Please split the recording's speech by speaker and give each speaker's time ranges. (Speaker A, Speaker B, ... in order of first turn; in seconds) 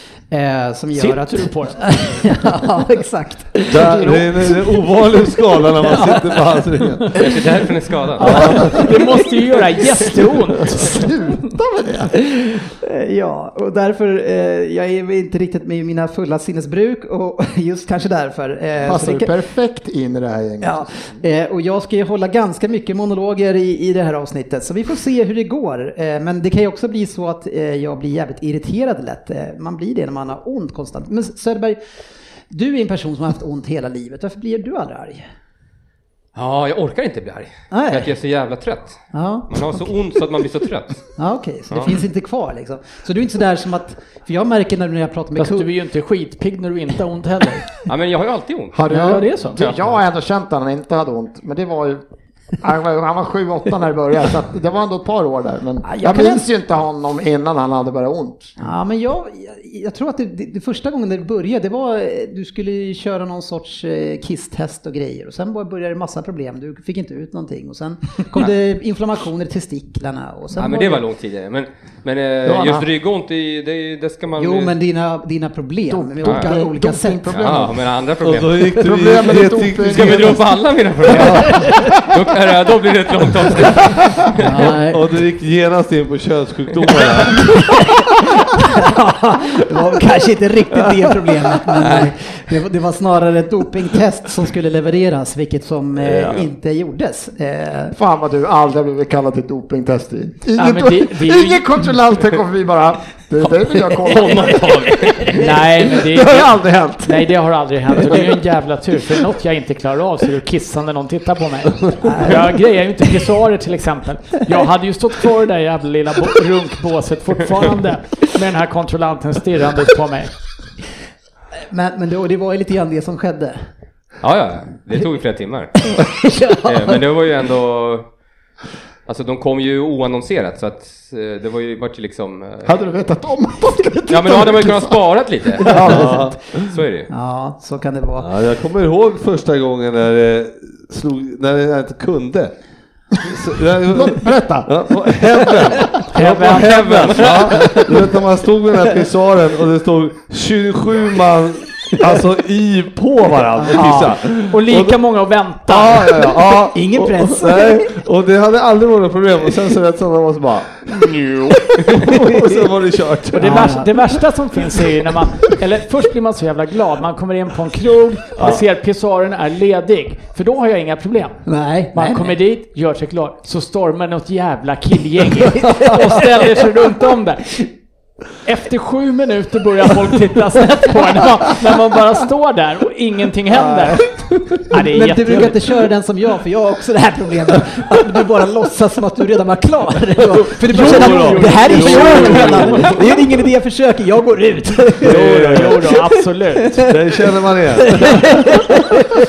Speaker A: 0.3-4.7, 5.8-6.4, 8.4-8.8, 12.3-19.3, 20.6-31.8, 32.5-35.2, 37.7-38.1, 39.1-39.9, 41.2-45.7, 48.9-49.2, 55.9-56.4, 58.6-71.0, 74.4-77.5, 84.4-85.2, 87.3-98.0, 104.3-105.3, 112.0-113.2, 121.7-123.6, 125.8-127.0, 135.6-136.4, 137.1-138.3, 153.6-154.1, 156.7-157.9, 161.8-162.4, 163.4-163.9, 171.5-172.3, 184.7-195.2, 196.9-197.2, 197.8-199.0
Speaker B: 0.9-1.9, 8.2-10.9, 45.4-47.6, 48.9-49.7, 100.6-101.7, 105.3-106.5, 107.0-120.3, 146.1-147.0, 153.8-156.1, 163.3-171.4, 171.9-177.7, 178.4-185.6, 190.5-193.0, 195.0-196.8
Speaker C: 3.7-7.2, 8.2-8.8, 78.2-80.4, 81.1-81.5, 84.8-87.5, 96.0-96.4, 106.3-106.9, 135.8-136.4, 138.2-142.5, 143.2-155.0, 155.7-163.7, 168.4-168.6, 190.6-193.2, 195.0-195.9, 196.9-198.1
Speaker D: 7.2-8.6, 36.4-41.0, 41.7-42.0, 47.9-48.8, 49.6-49.8, 70.6-74.7, 76.2-76.5, 77.3-78.5, 79.8-84.7, 91.8-92.1, 104.1-105.4, 124.2-125.9, 126.7-128.1, 129.1-132.8, 134.1-135.9, 136.7-137.1, 146.4-147.9
Speaker E: 10.7-12.1, 18.8-20.9, 48.7-52.0, 52.6-58.5, 72.5-72.8, 75.9-77.8, 78.7-80.4, 97.9-107.2, 132.7-135.0, 135.6-136.1, 143.9-144.7